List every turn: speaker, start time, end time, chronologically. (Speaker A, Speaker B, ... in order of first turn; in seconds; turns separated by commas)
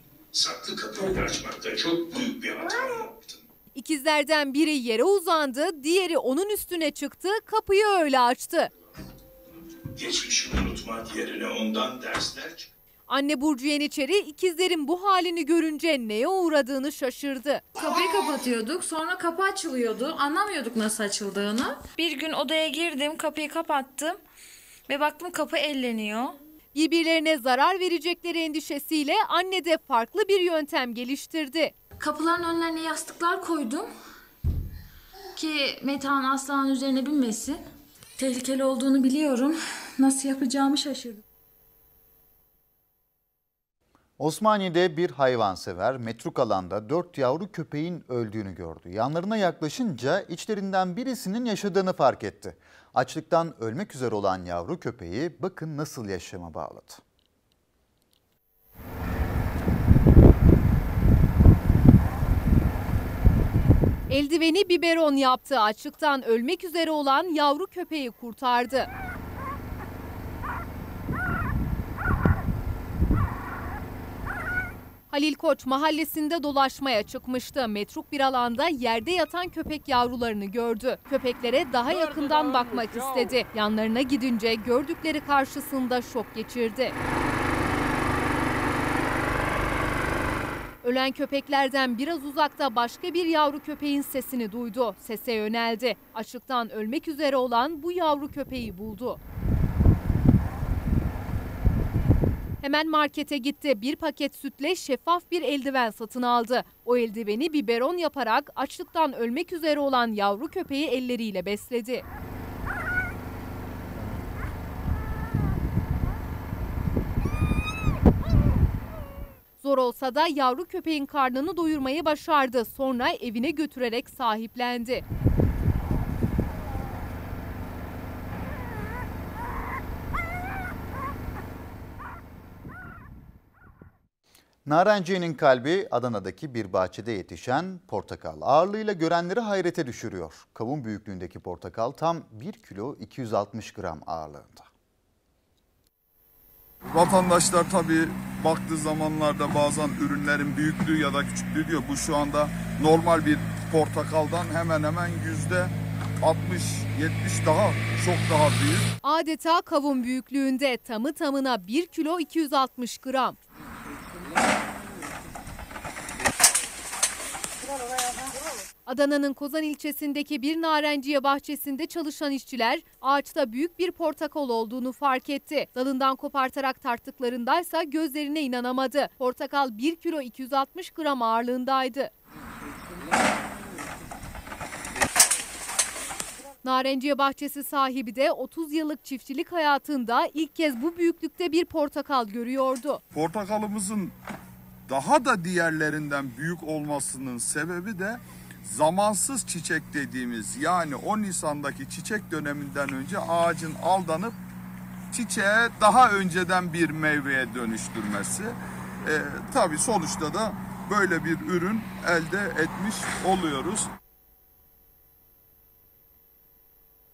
Speaker A: 0.3-3.4, Speaker B: 3.7-8.7, Speaker A: 9.9-12.7, Speaker B: 13.1-17.6, Speaker C: 17.8-24.2, Speaker C: 24.9-26.3, Speaker B: 26.7-31.7, Speaker C: 32.0-33.9, Speaker C: 35.4-37.6, Speaker C: 38.2-41.2, Speaker D: 44.2-57.0, Speaker B: 64.1-68.9, Speaker B: 75.1-87.0, Speaker B: 90.8-99.2, Speaker B: 102.6-112.0, Speaker B: 119.6-125.0, Speaker D: 134.7-144.7, Speaker E: 146.9-158.9, Speaker B: 159.0-163.4, Speaker B: 168.8-182.1, Speaker B: 186.6-193.0, Speaker E: 193.1-194.1, Speaker E: 194.9-204.4, Speaker E: 205.1-213.9